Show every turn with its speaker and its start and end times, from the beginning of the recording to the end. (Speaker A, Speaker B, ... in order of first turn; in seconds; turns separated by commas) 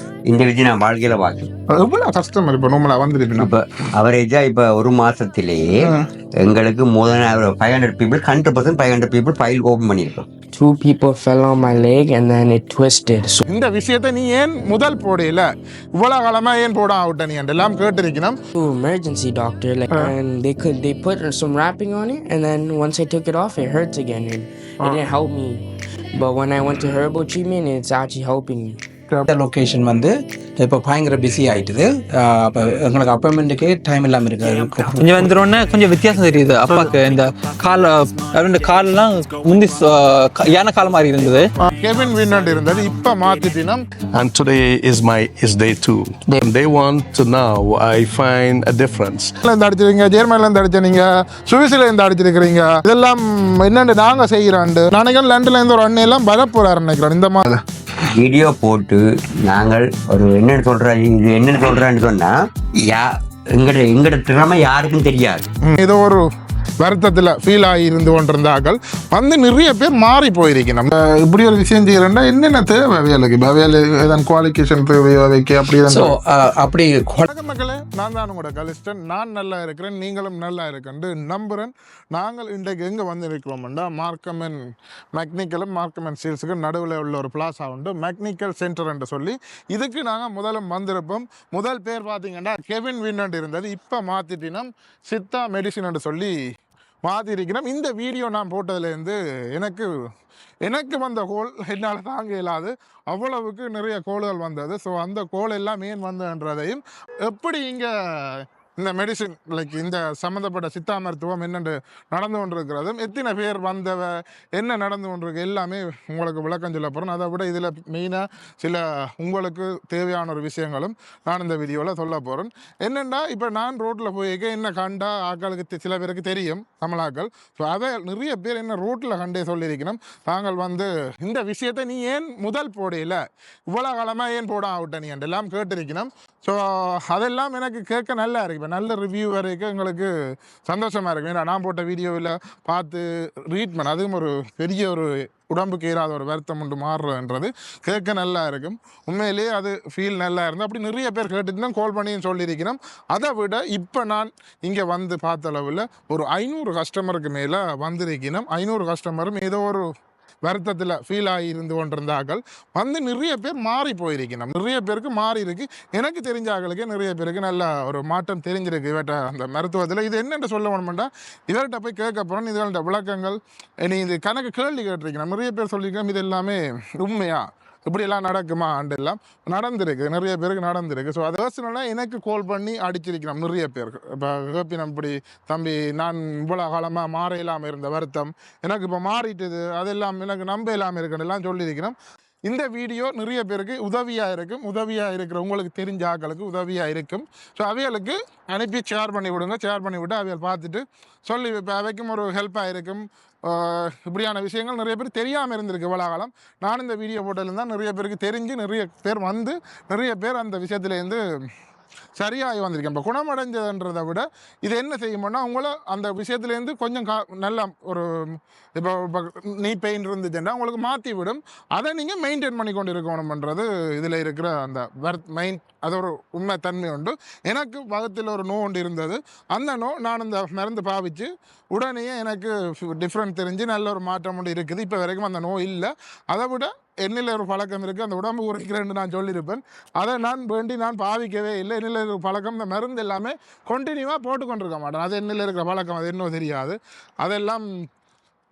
Speaker A: 0.3-1.5, Speaker B: 1.7-3.5, Speaker A: 3.4-10.3, Speaker B: 5.8-6.1, Speaker C: 10.5-13.4, Speaker B: 13.4-18.4, Speaker C: 18.5-25.6, Speaker B: 24.8-25.1, Speaker C: 26.1-28.8, Speaker D: 29.2-35.3, Speaker E: 35.0-41.5, Speaker B: 41.6-43.8, Speaker F: 44.1-49.3, Speaker B: 49.4-57.6, Speaker A: 58.0-65.5, Speaker B: 65.6-66.2, Speaker B: 66.8-76.2, Speaker D: 75.9-77.2, Speaker B: 77.2-84.6, Speaker B: 85.1-96.3, Speaker B: 97.0-99.9, Speaker B: 100.6-140.1, Speaker B: 140.7-159.8, Speaker B: 160.4-211.2, Speaker B: 212.2-247.7